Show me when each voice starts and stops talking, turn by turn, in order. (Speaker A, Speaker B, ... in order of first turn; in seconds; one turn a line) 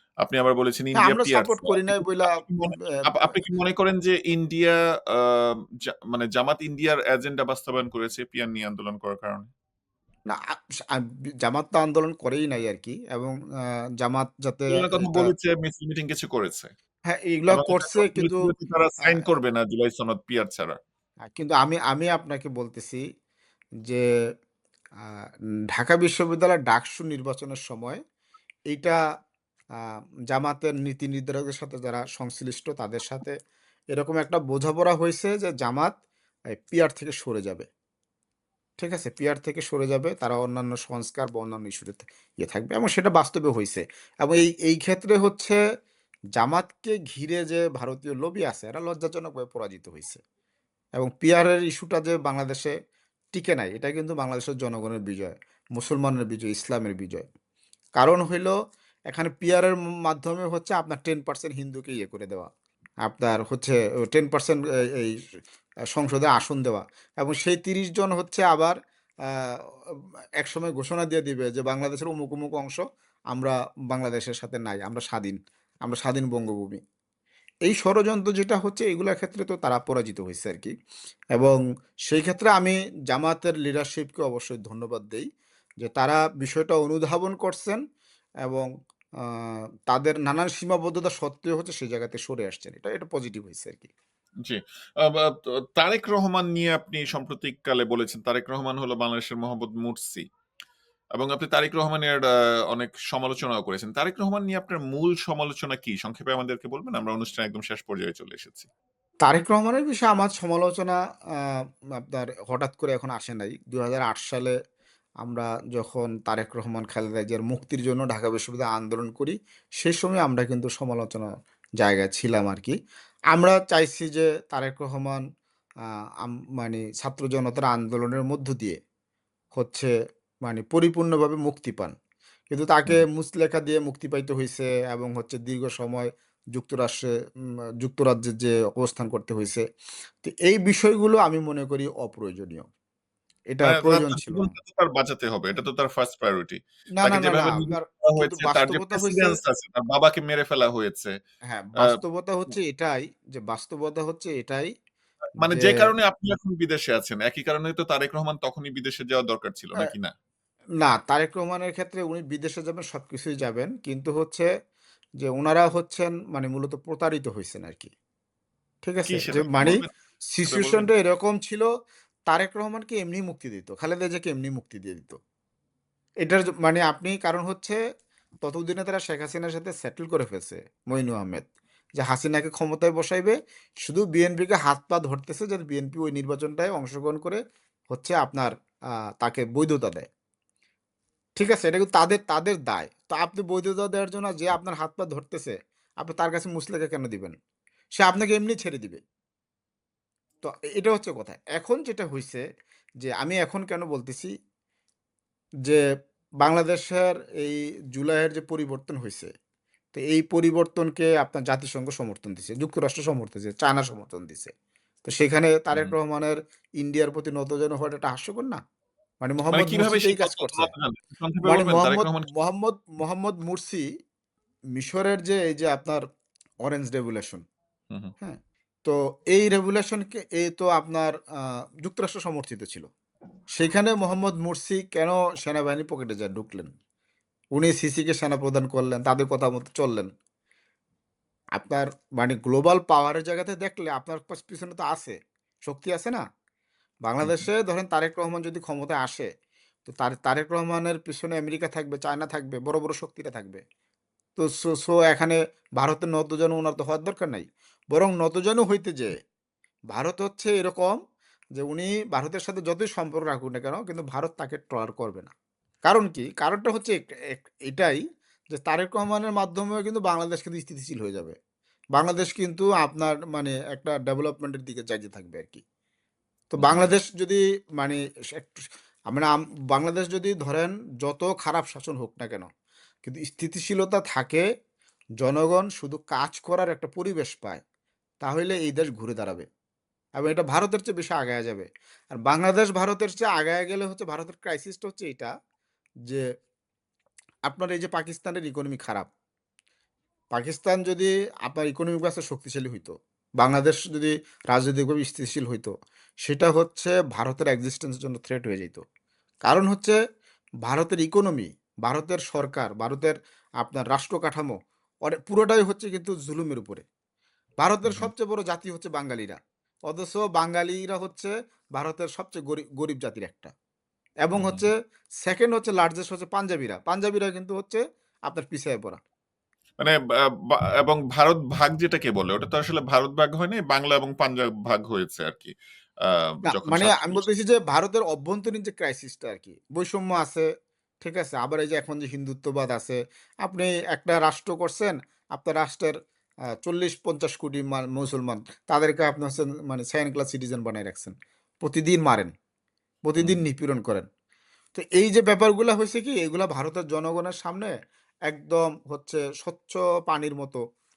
Speaker A: 0.2-9.5
Speaker B: 0.9-3.4
Speaker B: 10.9-15.3
Speaker A: 14.7-16.7
Speaker B: 17.1-18.4
Speaker A: 17.5-20.8
Speaker B: 21.2-23.0
Speaker B: 25.7-28.0
Speaker B: 28.7-29.0
Speaker B: 30.3-33.3
Speaker B: 33.9-35.9
Speaker B: 36.6-37.7
Speaker B: 38.8-45.6
Speaker B: 46.4-50.2
Speaker B: 51.0-52.7
Speaker B: 53.3-57.2
Speaker B: 58.0-58.5
Speaker B: 59.1-62.5
Speaker B: 63.1-65.1
Speaker B: 65.9-68.8
Speaker B: 69.3-69.6
Speaker B: 70.4-72.8
Speaker B: 73.3-76.8
Speaker B: 77.7-80.7
Speaker B: 81.4-85.3
Speaker B: 85.8-87.8
Speaker B: 89.3-93.9
Speaker A: 94.5-100.3
Speaker A: 101.2-108.7
Speaker B: 109.2-114.5
Speaker B: 115.2-121.3
Speaker B: 121.8-122.7
Speaker B: 123.3-125.2
Speaker B: 126.2-128.8
Speaker B: 129.5-129.9
Speaker B: 130.4-131.9
Speaker B: 132.5-137.1
Speaker B: 137.8-139.6
Speaker B: 140.2-142.7
Speaker B: 143.5-144.5
Speaker A: 143.6-151.1
Speaker B: 147.0-149.4
Speaker B: 151.5-154.7
Speaker A: 155.4-160.1
Speaker B: 155.4-155.9
Speaker B: 160.8-164.5
Speaker B: 165.2-167.9
Speaker B: 168.8-171.7
Speaker A: 169.1-169.9
Speaker A: 170.5-170.9
Speaker B: 172.3-175.2
Speaker B: 176.2-177.8
Speaker B: 178.4-181.5
Speaker B: 182.0-187.4
Speaker B: 187.9-188.5
Speaker B: 189.2-190.1
Speaker B: 191.4-197.4
Speaker B: 198.0-199.0
Speaker B: 200.4-202.4
Speaker B: 203.0-204.3
Speaker B: 206.4-209.3
Speaker B: 209.9-214.5
Speaker B: 215.1-218.6
Speaker B: 219.2-220.7
Speaker A: 219.5-222.3
Speaker B: 221.4-223.8
Speaker B: 224.7-226.0
Speaker B: 226.6-227.4
Speaker B: 228.2-232.9
Speaker B: 233.5-236.7
Speaker B: 237.6-240.1
Speaker B: 241.6-246.2
Speaker B: 247.1-249.3
Speaker A: 247.2-247.5
Speaker B: 249.9-253.6
Speaker B: 254.4-259.1
Speaker B: 259.9-261.0
Speaker B: 261.6-265.3
Speaker B: 265.9-268.0
Speaker B: 268.5-271.4
Speaker B: 272.0-275.6
Speaker B: 276.5-282.5
Speaker A: 276.6-276.9
Speaker B: 283.1-284.4
Speaker B: 285.2-287.6
Speaker B: 288.2-289.5
Speaker B: 290.2-295.3
Speaker B: 297.5-299.1
Speaker B: 300.3-305.7
Speaker B: 306.2-308.8
Speaker B: 309.5-310.0
Speaker B: 310.6-314.5
Speaker B: 315.1-316.9
Speaker B: 317.6-319.4
Speaker A: 317.9-318.1
Speaker B: 319.9-323.5
Speaker B: 324.2-329.0
Speaker A: 324.3-324.7
Speaker A: 330.5-335.5
Speaker A: 336.1-337.2
Speaker B: 336.5-340.4
Speaker B: 341.0-345.9
Speaker B: 346.6-352.3
Speaker B: 353.1-354.1
Speaker B: 354.7-357.7
Speaker B: 358.3-360.6